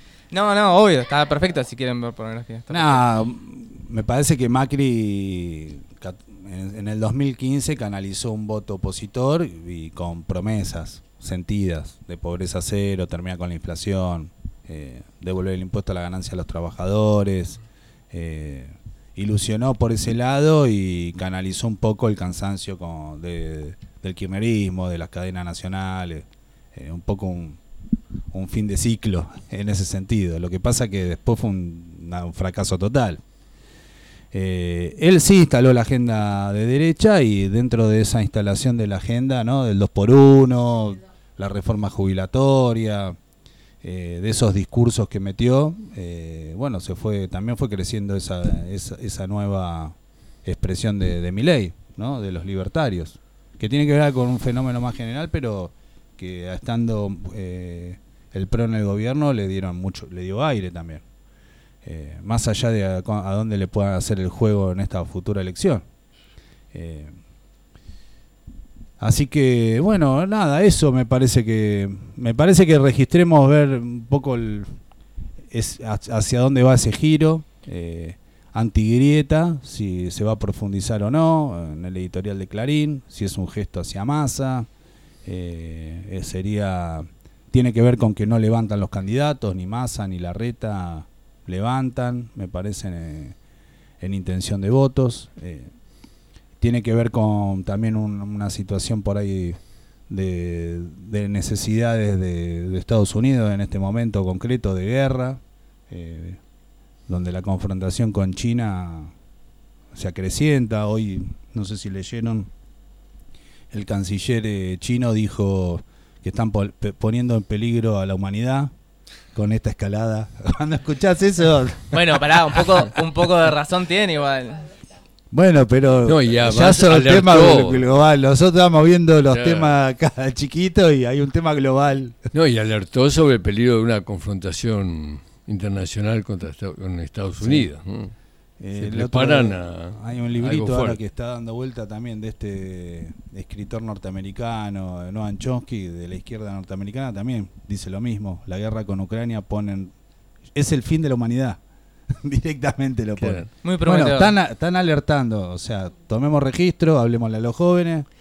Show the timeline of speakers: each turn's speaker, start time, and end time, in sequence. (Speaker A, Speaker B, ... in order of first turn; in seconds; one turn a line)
Speaker A: 0.3-3.1
Speaker B: 2.7-17.6
Speaker B: 18.1-27.6
Speaker B: 28.3-33.2
Speaker B: 34.3-43.1
Speaker B: 43.8-61.0
Speaker B: 61.8-65.8
Speaker B: 66.7-67.1
Speaker B: 69.0-74.8
Speaker B: 75.5-84.7
Speaker B: 85.2-93.4
Speaker B: 94.0-95.7
Speaker B: 96.6-99.6
Speaker B: 100.1-106.4
Speaker B: 107.1-109.1
Speaker B: 109.9-112.5
Speaker B: 113.7-118.7
Speaker B: 119.3-122.2
Speaker A: 121.9-124.6
Speaker B: 125.3-132.3
Speaker C: 126.0-127.9
Speaker C: 129.3-129.8
Speaker C: 132.3-138.1
Speaker B: 137.4-137.7
Speaker B: 138.6-149.9
Speaker C: 138.7-141.0
Speaker B: 150.5-151.6
Speaker B: 152.2-158.1
Speaker C: 153.2-153.5
Speaker A: 153.6-154.3